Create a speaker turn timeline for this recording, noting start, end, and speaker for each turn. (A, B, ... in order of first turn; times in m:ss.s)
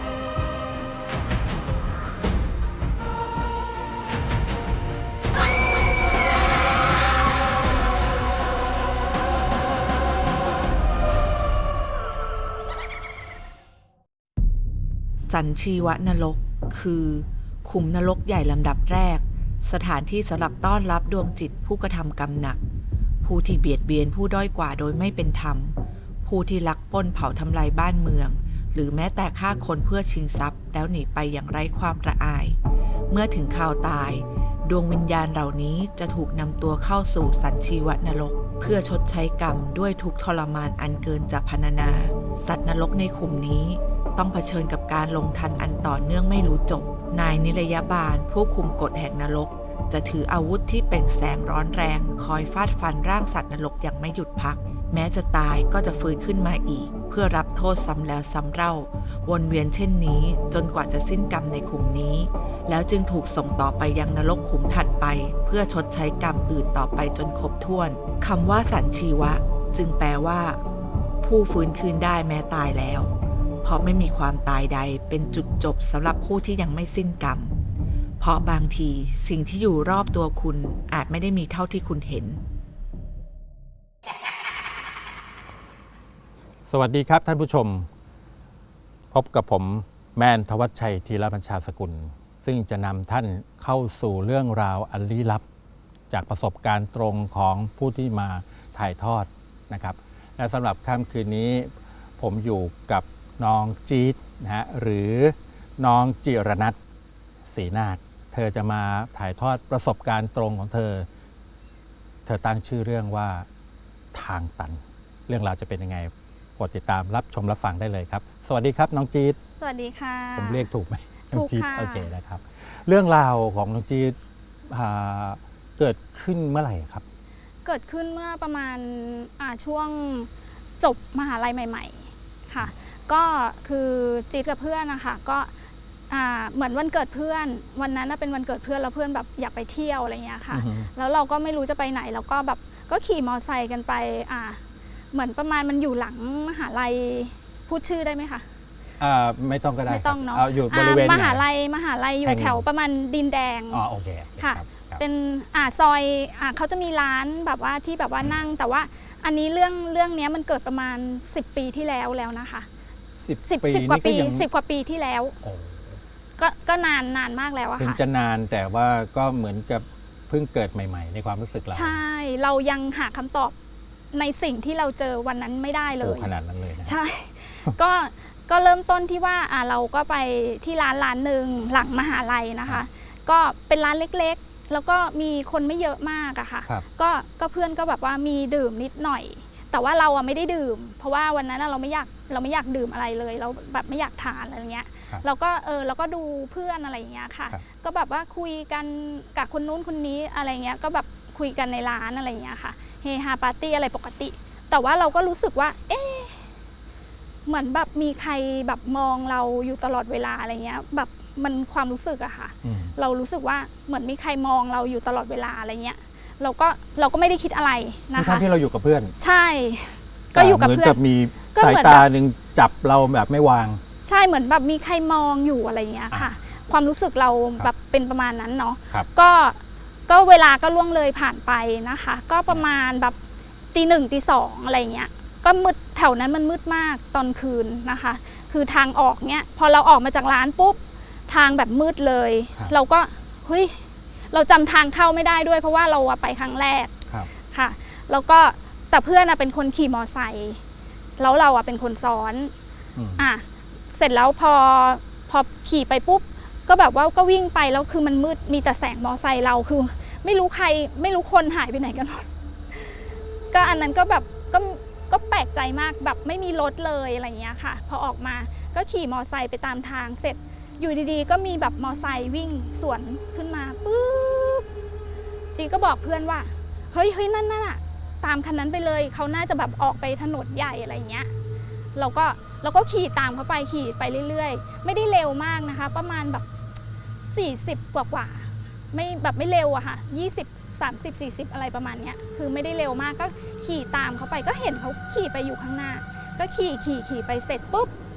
0:15.3-0:22.6 A
0:23.2-0:32.6 A
0:33.1-1:10.6 A
1:11.2-1:13.1 A
1:13.6-1:17.5 A
1:18.2-1:22.4 A
1:26.7-1:27.9 B
1:29.1-1:35.4 B
1:36.1-1:46.8 B
1:47.5-1:51.1 B
1:52.3-1:53.5 B
1:54.1-1:59.4 B
1:59.6-2:00.7 C
2:00.4-2:04.2 B
2:01.3-2:02.1 C
2:04.7-2:07.0 B
2:07.6-2:15.5 C
2:16.1-2:24.6 C
2:20.5-2:20.9 B
2:25.1-2:28.5 C
2:29.0-2:31.4 B
2:29.9-2:33.8 C
2:32.2-2:32.6 B
2:33.7-2:35.0 B
2:34.4-2:42.7 C
2:43.2-2:44.5 B
2:43.4-2:45.3 C
2:45.4-2:46.0 B
2:46.4-2:48.0 C
2:47.8-2:52.0 B
2:51.7-2:53.6 C
2:54.1-2:56.3 C
2:56.0-2:57.0 B
2:56.8-3:26.5 C
3:27.5-3:38.5 C
3:32.6-3:33.0 B
3:38.2-3:39.2 B
3:39.2-3:41.0 C
3:40.3-3:43.8 B
3:41.5-3:42.1 C
3:44.0-3:53.2 C
3:53.7-4:06.9 C
4:07.5-4:10.6 C
4:11.2-4:12.5 C
4:13.0-4:13.3 B
4:13.2-4:34.7 C
4:35.6-4:41.3 C
4:42.0-4:46.5 C
4:47.3-4:57.9 C